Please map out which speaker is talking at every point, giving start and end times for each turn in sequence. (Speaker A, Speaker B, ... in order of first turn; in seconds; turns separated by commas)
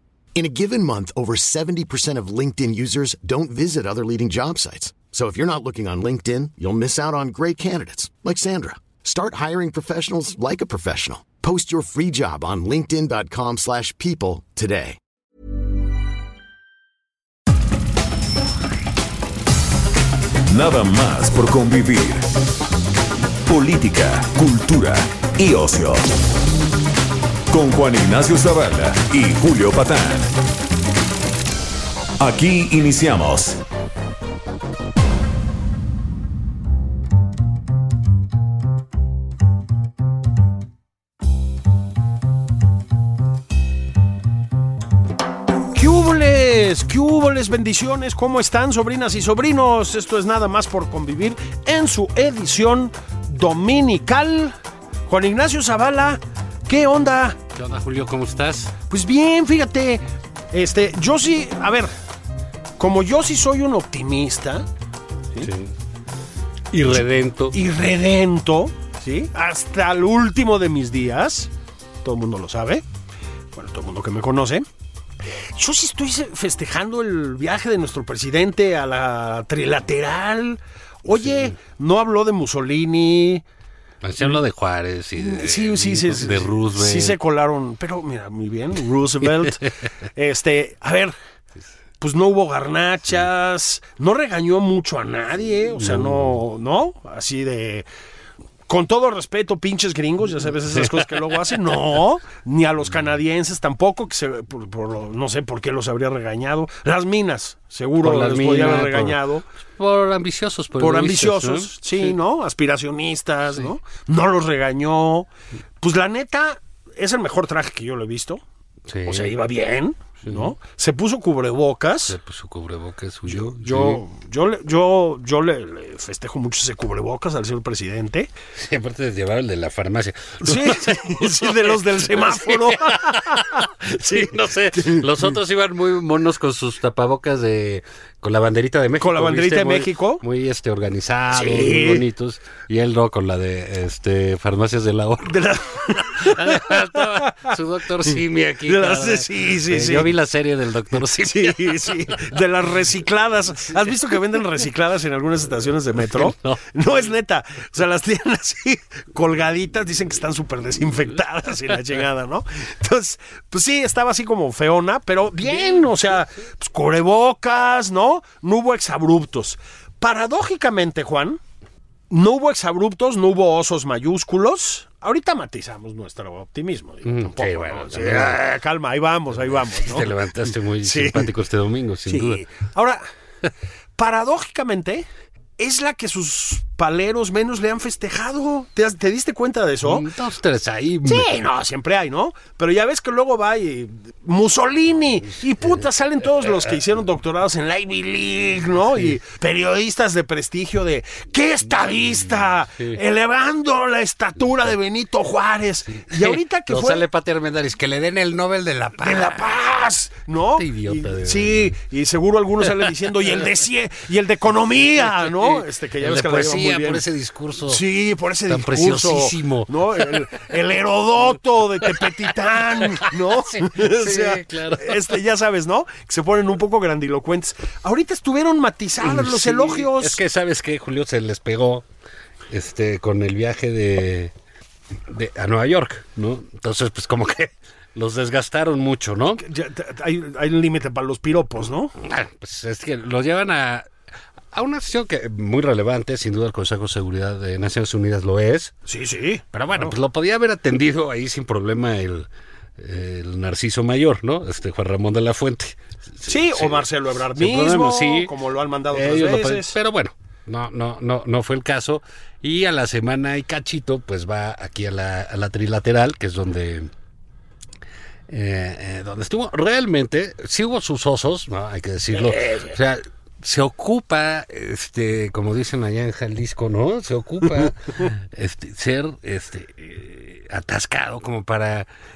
Speaker A: 0.3-15.0, Speaker B: 20.5-22.3, Speaker B: 23.5-26.1, Speaker B: 27.5-30.3, Speaker B: 32.2-33.6, Speaker C: 45.7-54.5, Speaker C: 55.1-57.4, Speaker D: 57.6-58.7, Speaker C: 58.9-61.9, Speaker C: 62.8-64.7, Speaker D: 65.4-65.7, Speaker D: 66.7-67.6, Speaker C: 67.5-71.5, Speaker C: 72.0-72.8, Speaker C: 73.5-74.7, Speaker C: 75.6-83.4, Speaker D: 81.1-81.5, Speaker D: 84.0-87.2, Speaker C: 85.2-91.2, Speaker C: 92.0-97.9, Speaker D: 95.8-96.4, Speaker C: 98.7-109.5, Speaker D: 100.8-101.0, Speaker D: 108.0-109.2, Speaker D: 109.8-112.1, Speaker C: 110.8-115.3, Speaker C: 115.8-118.4, Speaker D: 118.9-119.3, Speaker C: 119.1-122.2, Speaker D: 120.2-120.5, Speaker D: 122.1-124.0, Speaker C: 123.3-128.3, Speaker D: 128.6-151.8, Speaker C: 130.4-135.3, Speaker C: 139.0-140.2, Speaker C: 141.3-142.1, Speaker C: 145.3-147.6, Speaker C: 148.7-150.1, Speaker C: 151.1-171.4, Speaker D: 156.0-156.6, Speaker D: 165.4-166.0, Speaker C: 172.1-180.2, Speaker D: 177.1-178.4, Speaker D: 179.7-182.4, Speaker C: 180.8-181.3, Speaker C: 182.1-183.0, Speaker C: 184.0-185.1, Speaker C: 185.6-190.1, Speaker D: 189.8-191.3, Speaker C: 191.1-207.1, Speaker D: 202.2-203.0, Speaker D: 205.9-209.5, Speaker C: 209.0-217.1, Speaker D: 210.5-211.7, Speaker D: 215.2-217.8, Speaker C: 217.7-230.2, Speaker D: 218.5-220.0, Speaker D: 222.7-225.2, Speaker D: 229.0-231.8, Speaker D: 232.5-234.3, Speaker D: 235.1-239.4, Speaker C: 239.4-241.9, Speaker D: 242.0-243.9, Speaker D: 244.5-248.7, Speaker C: 248.9-250.0, Speaker D: 249.5-258.3, Speaker C: 256.3-259.8, Speaker D: 258.9-266.9, Speaker D: 268.3-281.9, Speaker C: 272.2-272.8